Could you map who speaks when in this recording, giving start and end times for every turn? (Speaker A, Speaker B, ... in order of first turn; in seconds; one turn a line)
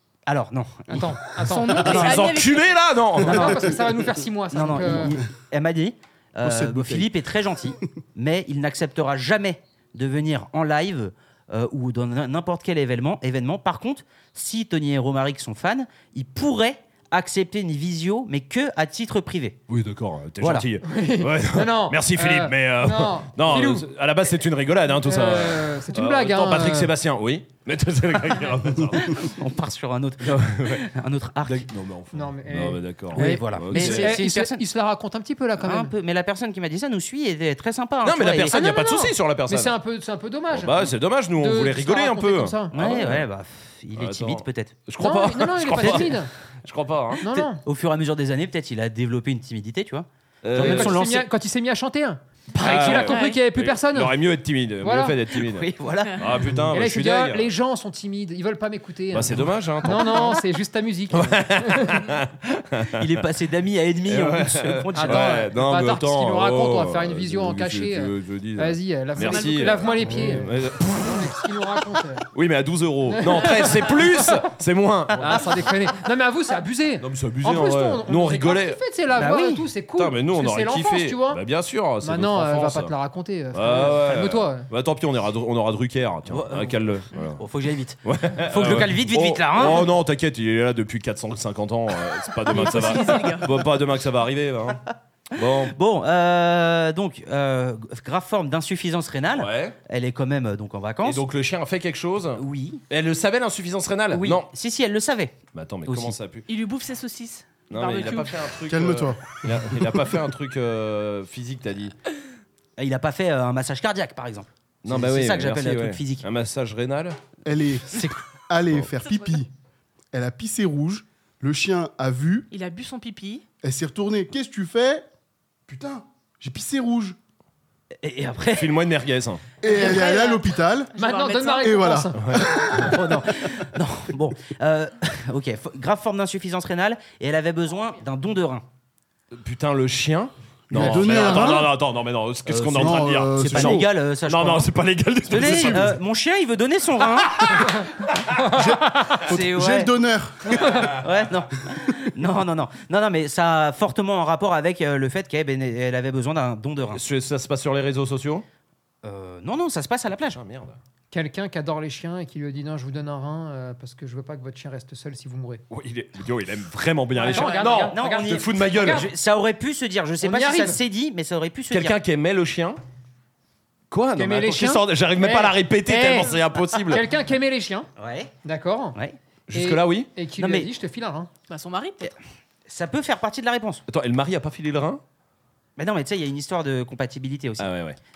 Speaker A: 0.3-1.1
Speaker B: 0.9-2.2
Speaker C: 1.4-2.7
Speaker D: 1.8-3.6
Speaker A: 1.8-2.3
Speaker A: 3.2-3.6
Speaker B: 3.3-5.2
Speaker A: 4.5-19.6
Speaker E: 6.4-7.1
Speaker D: 19.7-29.4
Speaker A: 20.4-20.7
Speaker B: 20.9-23.9
Speaker B: 24.9-26.9
Speaker A: 29.1-31.7
Speaker D: 30.2-30.9
Speaker D: 31.4-34.2
Speaker B: 32.1-35.9
Speaker A: 33.1-34.6
Speaker A: 35.6-38.6
Speaker D: 38.0-39.8
Speaker B: 38.5-42.8
Speaker D: 40.5-43.2
Speaker A: 42.7-44.8
Speaker D: 44.0-47.2
Speaker B: 45.0-46.3
Speaker A: 45.7-46.1
Speaker B: 47.2-47.6
Speaker A: 47.2-51.3
Speaker D: 50.4-51.0
Speaker B: 50.6-54.2
Speaker D: 52.6-57.5
Speaker C: 52.8-53.4
Speaker B: 54.8-55.2
Speaker A: 55.3-56.2
Speaker B: 56.7-62.1
Speaker D: 59.1-60.4
Speaker D: 61.1-63.1
Speaker A: 63.0-65.3
Speaker D: 64.1-71.4
Speaker B: 65.0-72.2
Speaker C: 69.2-69.9
Speaker D: 72.3-75.6
Speaker B: 73.1-74.5
Speaker B: 75.2-81.4
Speaker D: 77.0-78.8
Speaker A: 79.2-79.7
Speaker D: 80.0-82.9
Speaker B: 82.0-84.7
Speaker D: 83.5-87.4
Speaker A: 86.3-89.9
Speaker D: 88.0-94.8
Speaker C: 92.5-93.7
Speaker D: 95.3-95.8
Speaker A: 95.7-101.2
Speaker D: 99.3-99.8
Speaker D: 101.0-104.5
Speaker A: 102.4-102.8
Speaker A: 104.1-106.2
Speaker D: 105.5-106.5
Speaker C: 106.5-108.4
Speaker D: 107.7-111.9
Speaker E: 108.7-110.2
Speaker A: 112.8-116.2
Speaker D: 114.8-117.2
Speaker E: 117.5-119.5
Speaker A: 117.9-118.2
Speaker E: 120.1-122.5
Speaker C: 122.5-123.4
Speaker E: 123.6-125.0
Speaker E: 125.7-127.2
Speaker A: 128.0-128.7
Speaker D: 128.6-129.4
Speaker E: 129.6-130.9
Speaker C: 129.6-132.0
Speaker B: 131.0-132.5
Speaker E: 131.6-132.9
Speaker D: 132.2-132.9
Speaker A: 132.8-138.6
Speaker D: 139.3-146.0
Speaker E: 140.7-141.7
Speaker A: 140.8-141.5
Speaker A: 142.5-144.7
Speaker E: 142.7-143.9
Speaker A: 145.3-147.6
Speaker E: 145.3-145.9
Speaker D: 147.2-148.3
Speaker E: 148.5-150.9
Speaker A: 149.3-149.9
Speaker A: 150.9-157.0
Speaker D: 156.9-158.4
Speaker A: 159.0-160.4
Speaker D: 160.3-160.8
Speaker B: 161.1-165.6
Speaker D: 165.7-169.1
Speaker B: 167.2-169.1
Speaker C: 167.2-167.6
Speaker A: 167.4-172.0
Speaker B: 170.2-170.8
Speaker D: 171.7-172.8
Speaker D: 173.9-177.0
Speaker B: 174.2-177.9
Speaker A: 178.0-178.3
Speaker B: 178.4-179.0
Speaker D: 179.5-180.1
Speaker B: 179.5-181.3
Speaker A: 180.4-180.7
Speaker C: 181.5-182.1
Speaker A: 182.7-183.8
Speaker D: 183.9-185.0
Speaker A: 185.8-187.7
Speaker D: 187.6-188.0